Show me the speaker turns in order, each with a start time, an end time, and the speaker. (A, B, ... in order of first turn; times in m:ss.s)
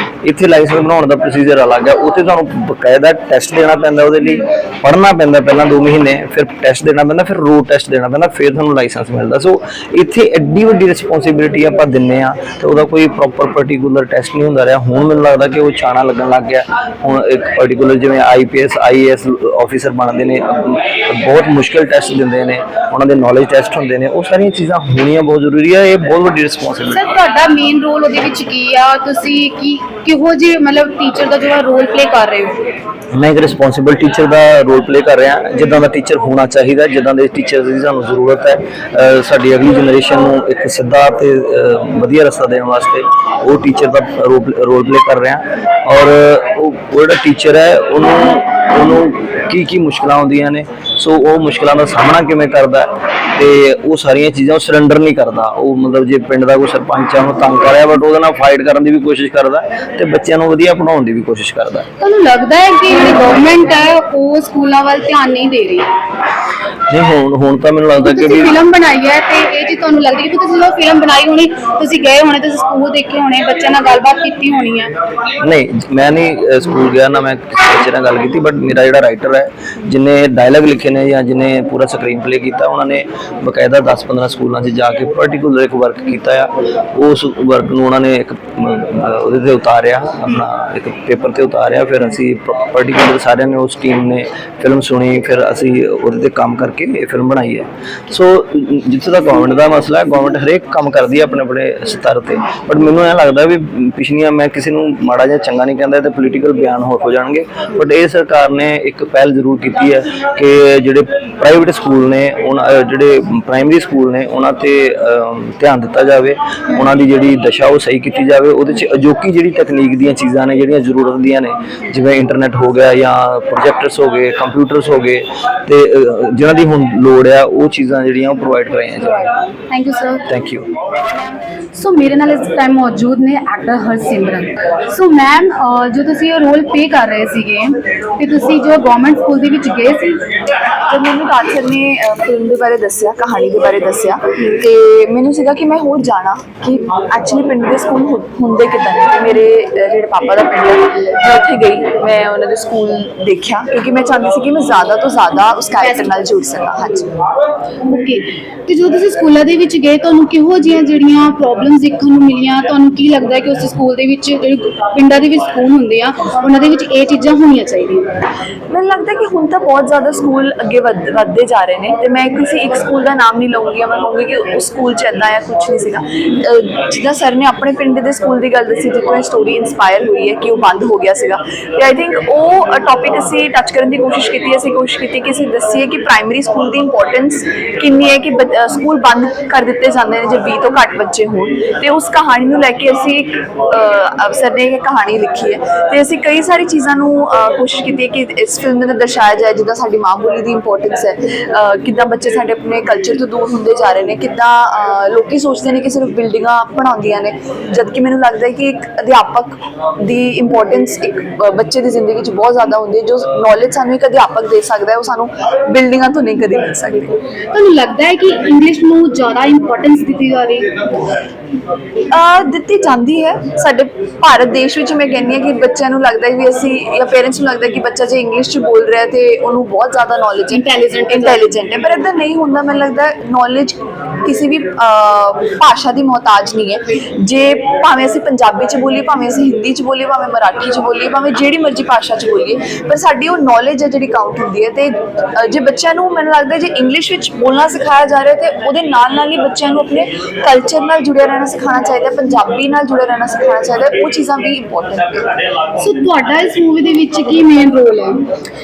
0:00.2-0:27.1 A
0:26.9-0:32.6 B
0:33.1-1:01.9 A
1:02.0-1:05.9 B
1:06.9-1:08.5 A
1:08.0-1:14.9 B
1:15.4-2:09.3 A
2:09.7-2:10.3 B
2:10.3-2:10.7 A
2:11.7-2:20.3 B
2:20.9-2:37.1 C
2:35.8-2:36.1 B
2:37.8-2:48.0 B
2:48.7-3:37.2 C
3:37.5-3:41.0 B
3:42.1-4:15.4 C
3:50.5-3:51.4 B
4:15.8-4:18.2 B